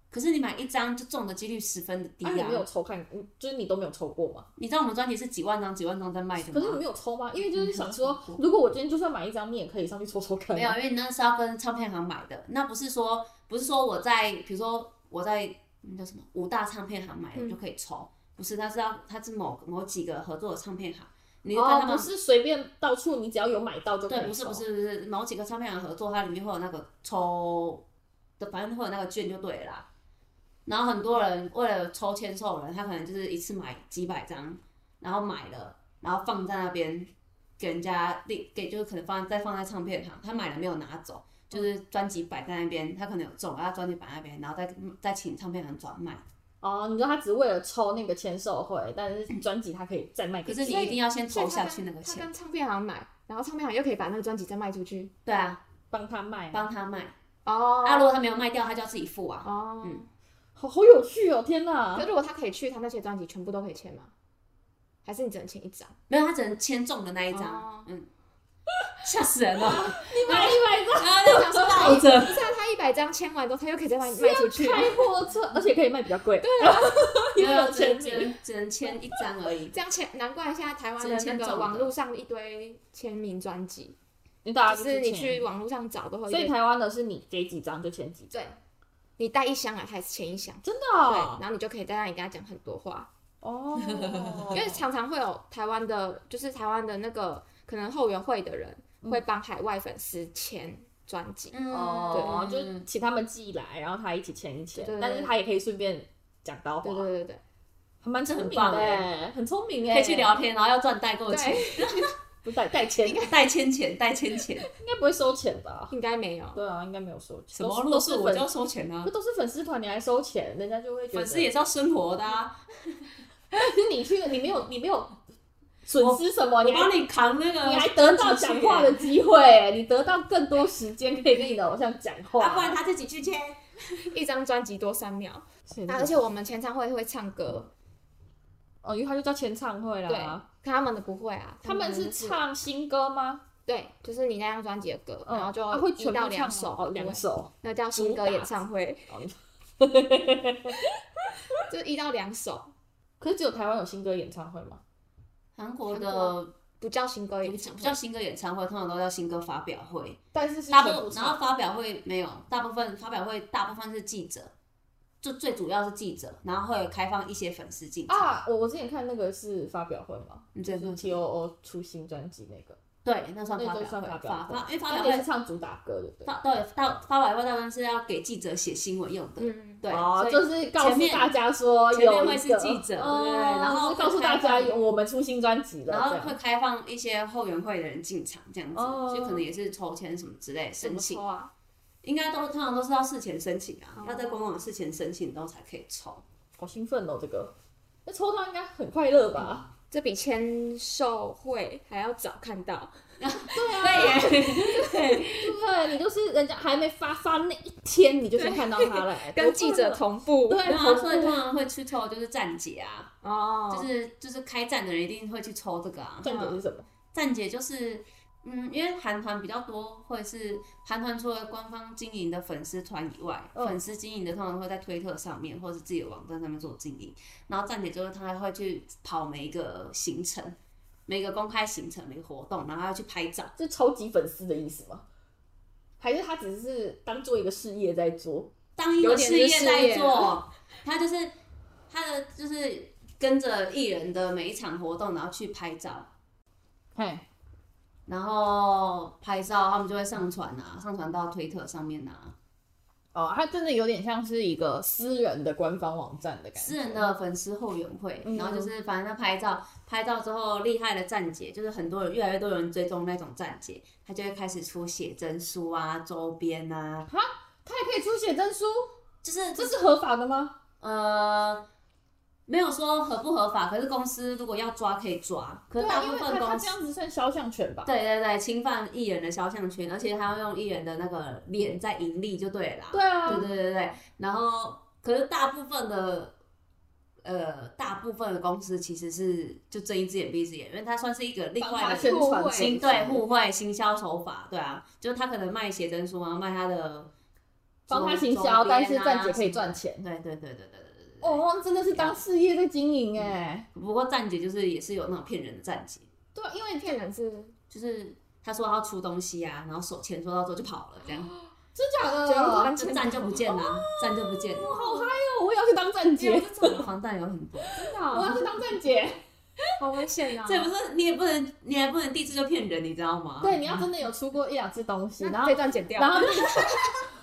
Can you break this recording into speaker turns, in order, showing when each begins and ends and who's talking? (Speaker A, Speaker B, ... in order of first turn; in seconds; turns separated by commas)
Speaker A: 0.1-2.7, Speaker B: 2.2-4.5, Speaker A: 4.6-6.8, Speaker B: 6.4-10.8, Speaker A: 7.5-8.4, Speaker A: 10.5-22.1, Speaker B: 21.5-24.6, Speaker A: 24.1-27.9, Speaker A: 28.4-29.9, Speaker A: 30.7-46.2, Speaker B: 46.6-50.8, Speaker A: 50.5-52.3, Speaker C: 50.6-55.1, Speaker A: 55.3-55.6, Speaker B: 55.9-56.7, Speaker A: 56.5-57.1, Speaker C: 57.5-58.1, Speaker A: 57.8-60.0, Speaker C: 59.4-60.1, Speaker B: 60.6-62.1, Speaker C: 62.0-64.1, Speaker C: 65.0-66.0, Speaker A: 66.1-68.1, Speaker C: 67.3-67.9, Speaker A: 69.0-72.5, Speaker B: 69.6-72.0, Speaker C: 71.2-75.1, Speaker B: 74.1-78.4, Speaker C: 76.4-77.2, Speaker A: 77.4-79.8, Speaker C: 79.7-84.0, Speaker A: 81.0-81.9, Speaker B: 84.5-85.5, Speaker C: 84.7-86.5, Speaker B: 86.3-88.3, Speaker C: 88.3-88.6, Speaker C: 89.2-93.1, Speaker B: 90.6-91.4, Speaker B: 93.4-94.8, Speaker A: 93.8-94.6, Speaker C: 94.5-101.6, Speaker A: 101.5-102.9, Speaker B: 101.7-107.1, Speaker C: 102.1-102.5, Speaker C: 104.8-105.3, Speaker C: 106.8-107.4, Speaker B: 108.0-110.3, Speaker A: 108.3-109.1, Speaker A: 109.9-112.1, Speaker C: 111.3-112.1, Speaker B: 112.4-113.3, Speaker C: 113.0-113.3, Speaker A: 113.2-114.7, Speaker B: 114.8-115.9, Speaker C: 115.9-116.6, Speaker B: 116.5-118.5, Speaker A: 117.5-119.1, Speaker B: 119.0-121.5, Speaker A: 121.1-123.1, Speaker B: 123.5-125.2, Speaker B: 125.8-126.9, Speaker A: 126.0-129.1, Speaker B: 127.6-132.8, Speaker A: 132.4-133.6, Speaker C: 134.0-137.7, Speaker B: 135.7-136.2, Speaker B: 138.8-140.4, Speaker C: 140.1-142.4, Speaker B: 141.6-143.4, Speaker C: 143.7-149.1, Speaker B: 145.3-148.5, Speaker B: 149.1-150.9, Speaker C: 151.6-152.7, Speaker B: 153.2-154.8, Speaker A: 155.6-156.5, Speaker C: 155.9-158.0, Speaker A: 157.4-164.5, Speaker B: 160.3-161.4, Speaker A: 165.2-168.4, Speaker B: 168.1-172.8, Speaker A: 170.6-171.2, Speaker A: 173.1-175.3, Speaker B: 173.6-176.3, Speaker A: 176.3-181.3, Speaker C: 179.4-179.9, Speaker B: 179.9-186.4, Speaker A: 181.9-184.8, Speaker A: 185.9-191.2, Speaker B: 188.7-189.4, Speaker C: 190.8-191.5, Speaker A: 192.0-196.2, Speaker C: 194.0-194.5, Speaker B: 196.6-197.6, Speaker B: 198.1-199.7, Speaker C: 199.9-203.0, Speaker A: 203.2-205.6, Speaker B: 203.5-204.6, Speaker C: 203.8-205.0, Speaker B: 205.3-211.4, Speaker C: 208.4-210.7, Speaker A: 210.6-213.1, Speaker C: 213.2-213.9, Speaker A: 213.7-216.3, Speaker B: 216.2-216.9, Speaker C: 216.3-216.6, Speaker A: 217.1-233.5, Speaker B: 233.6-235.1, Speaker B: 236.0-238.5, Speaker A: 238.8-241.3, Speaker C: 239.0-240.4, Speaker A: 241.9-246.1, Speaker B: 247.0-247.3, Speaker A: 248.1-252.4, Speaker B: 253.1-257.1, Speaker A: 256.6-267.1, Speaker B: 258.2-258.7, Speaker B: 267.1-268.9, Speaker A: 269.2-269.8, Speaker B: 269.6-270.6, Speaker A: 270.8-271.7, Speaker A: 272.5-276.8, Speaker B: 275.8-277.9, Speaker A: 277.9-286.4, Speaker B: 282.9-283.5, Speaker A: 287.2-297.1, Speaker B: 291.6-293.2, Speaker C: 291.8-292.8, Speaker B: 297.9-300.1, Speaker A: 297.9-302.2, Speaker B: 301.2-303.7, Speaker A: 303.2-306.1, Speaker B: 306.4-307.0, Speaker C: 306.8-307.6, Speaker A: 307.7-311.3, Speaker C: 311.1-311.4, Speaker B: 311.8-312.8, Speaker C: 312.2-313.4, Speaker A: 312.7-314.7, Speaker B: 313.4-316.8, Speaker C: 314.6-315.1, Speaker C: 316.2-316.9, Speaker A: 316.6-317.7, Speaker C: 317.7-318.6, Speaker B: 318.1-319.2, Speaker C: 319.8-320.7, Speaker A: 320.4-323.9, Speaker B: 323.4-326.7, Speaker C: 325.2-326.7